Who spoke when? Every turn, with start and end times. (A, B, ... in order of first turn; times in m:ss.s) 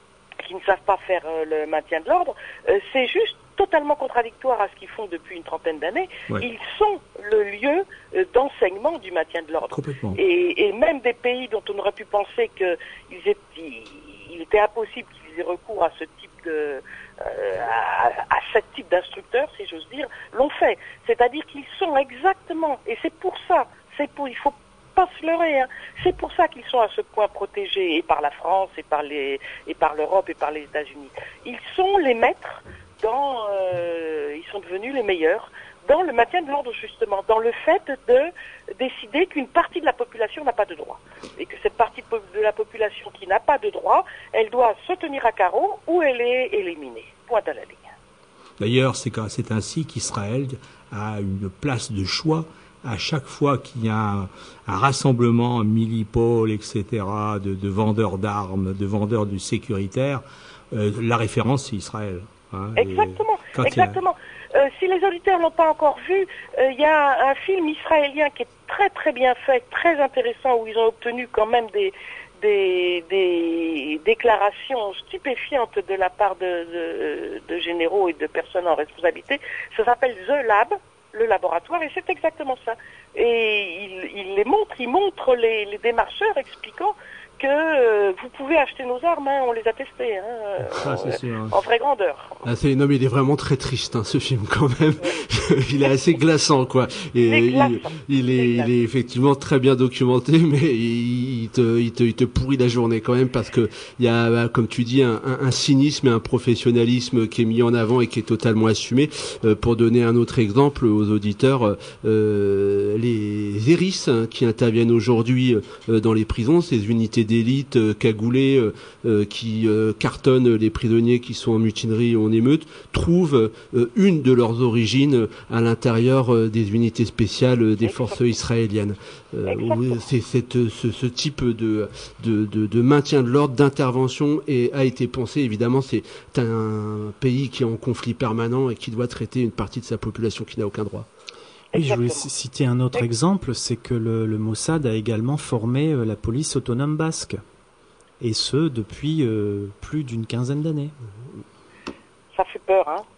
0:00.4-0:47.8 A
0:09.7-0:10.2 B
0:48.6-1:04.0 B
1:02.8-1:32.4 A
1:30.7-1:31.5 B
1:32.4-2:21.1 C
1:37.2-1:38.7 A
2:07.8-2:08.1 A
2:09.5-2:09.9 A
2:21.7-2:22.3 A
2:21.7-2:27.4 D
2:28.2-2:30.9 D
2:32.3-2:33.0 A